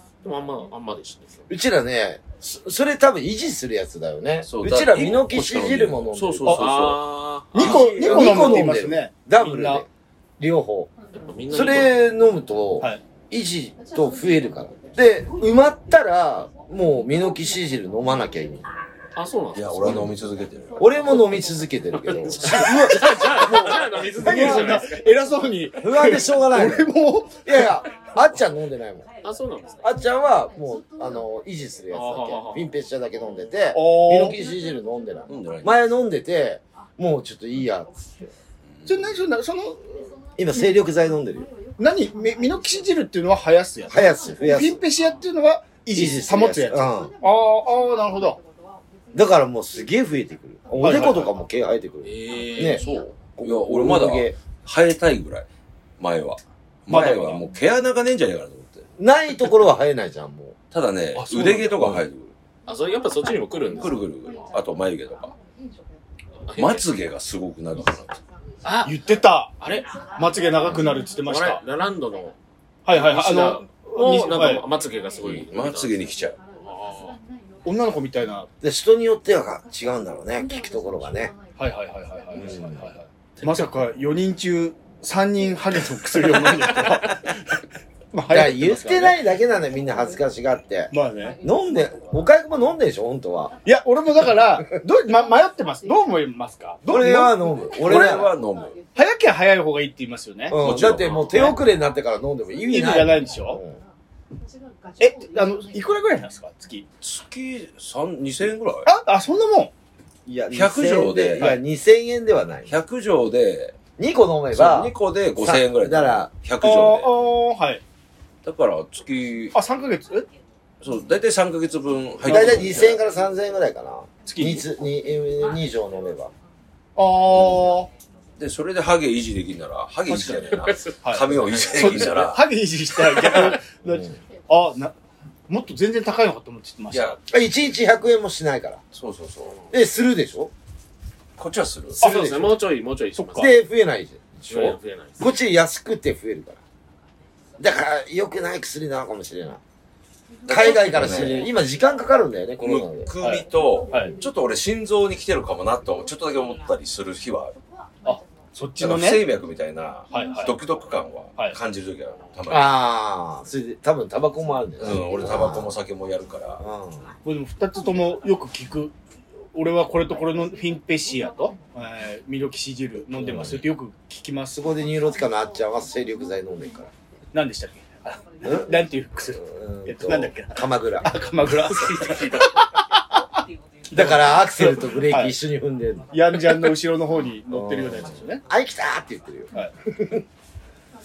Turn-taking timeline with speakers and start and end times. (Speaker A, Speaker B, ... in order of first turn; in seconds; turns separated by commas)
Speaker A: 0.2-1.5, Speaker B: 1.5-6.5, Speaker C: 4.4-7.1, Speaker A: 6.5-8.1, Speaker D: 7.5-9.8, Speaker B: 7.6-9.9, Speaker B: 10.4-10.9, Speaker A: 11.3-12.0, Speaker B: 11.5-18.7, Speaker A: 19.1-20.1, Speaker C: 19.5-21.3, Speaker B: 20.8-24.8, Speaker A: 22.1-25.0, Speaker D: 24.2-27.6, Speaker B: 25.8-26.9, Speaker B: 27.4-29.1, Speaker A: 29.2-29.9, Speaker B: 29.8-38.3, Speaker A: 31.9-32.7, Speaker D: 33.7-34.4, Speaker C: 35.3-35.7, Speaker C: 38.8-39.2, Speaker D: 38.9-39.9, Speaker B: 40.4-41.5, Speaker D: 41.8-48.4, Speaker B: 43.9-44.8, Speaker B: 45.9-47.1, Speaker B: 49.1-54.4, Speaker D: 50.8-51.3, Speaker A: 52.0-53.2, Speaker C: 53.4-55.5, Speaker C: 56.0-58.9, Speaker D: 56.9-57.4, Speaker B: 59.0-60.6, Speaker C: 60.7-62.3, Speaker D: 61.1-62.0, Speaker A: 62.7-64.0, Speaker C: 63.7-65.3, Speaker A: 66.5-66.9, Speaker C: 66.5-68.2, Speaker A: 68.6-68.9, Speaker D: 68.8-71.6, Speaker A: 69.6-70.0, Speaker A: 71.2-72.3, Speaker D: 72.8-74.7, Speaker A: 72.9-76.0, Speaker C: 75.2-76.4, Speaker A: 76.6-77.2, Speaker D: 77.6-78.5, Speaker B: 78.6-81.3, Speaker D: 81.5-82.9, Speaker B: 82.3-82.9, Speaker D: 83.4-87.2, Speaker D: 88.1-89.2, Speaker B: 88.3-93.5, Speaker D: 90.9-91.4, Speaker D: 93.6-98.1, Speaker B: 96.8-98.3, Speaker C: 97.8-98.8, Speaker D: 98.9-100.7, Speaker B: 100.5-103.8, Speaker C: 100.6-101.5, Speaker D: 101.3-101.6, Speaker D: 102.6-103.6, Speaker D: 105.0-106.8, Speaker C: 107.0-108.9, Speaker D: 108.8-109.7, Speaker B: 110.2-112.7, Speaker C: 110.5-111.6, Speaker C: 112.7-113.8, Speaker B: 114.0-116.3, Speaker C: 114.5-117.1, Speaker D: 116.6-117.8, Speaker C: 118.4-119.6, Speaker D: 119.5-120.2, Speaker C: 120.8-123.0, Speaker D: 122.2-122.8, Speaker B: 122.3-126.3, Speaker D: 124.3-124.7, Speaker D: 127.0-127.9, Speaker C: 128.4-133.6, Speaker D: 130.1-130.4, Speaker A: 130.2-131.8, Speaker D: 131.0-134.9, Speaker B: 133.8-134.1, Speaker D: 135.5-137.2, Speaker C: 136.9-137.2, Speaker B: 137.3-138.8, Speaker C: 138.9-139.6, Speaker B: 139.7-140.5, Speaker C: 141.4-142.0, Speaker D: 142.0-142.6, Speaker A: 142.0-143.5, Speaker D: 143.1-143.5, Speaker B: 143.3-146.6, Speaker A: 144.5-145.2, Speaker B: 147.6-149.6, Speaker C: 150.5-151.5, Speaker B: 150.5-153.1, Speaker C: 152.6-157.5, Speaker D: 153.2-154.1, Speaker D: 158.0-159.2, Speaker C: 158.8-162.7, Speaker D: 160.1-160.5, Speaker B: 162.5-165.7, Speaker C: 164.8-166.6, Speaker B: 166.6-167.1, Speaker D: 167.2-168.9, Speaker D: 169.5-174.7, Speaker B: 173.2-173.6, Speaker B: 174.6-176.9, Speaker D: 177.3-183.4, Speaker B: 178.4-178.8, Speaker B: 179.3-181.1, Speaker A: 181.6-182.6, Speaker D: 183.9-185.3, Speaker B: 183.9-186.5, Speaker D: 186.1-188.4, Speaker B: 187.5-190.2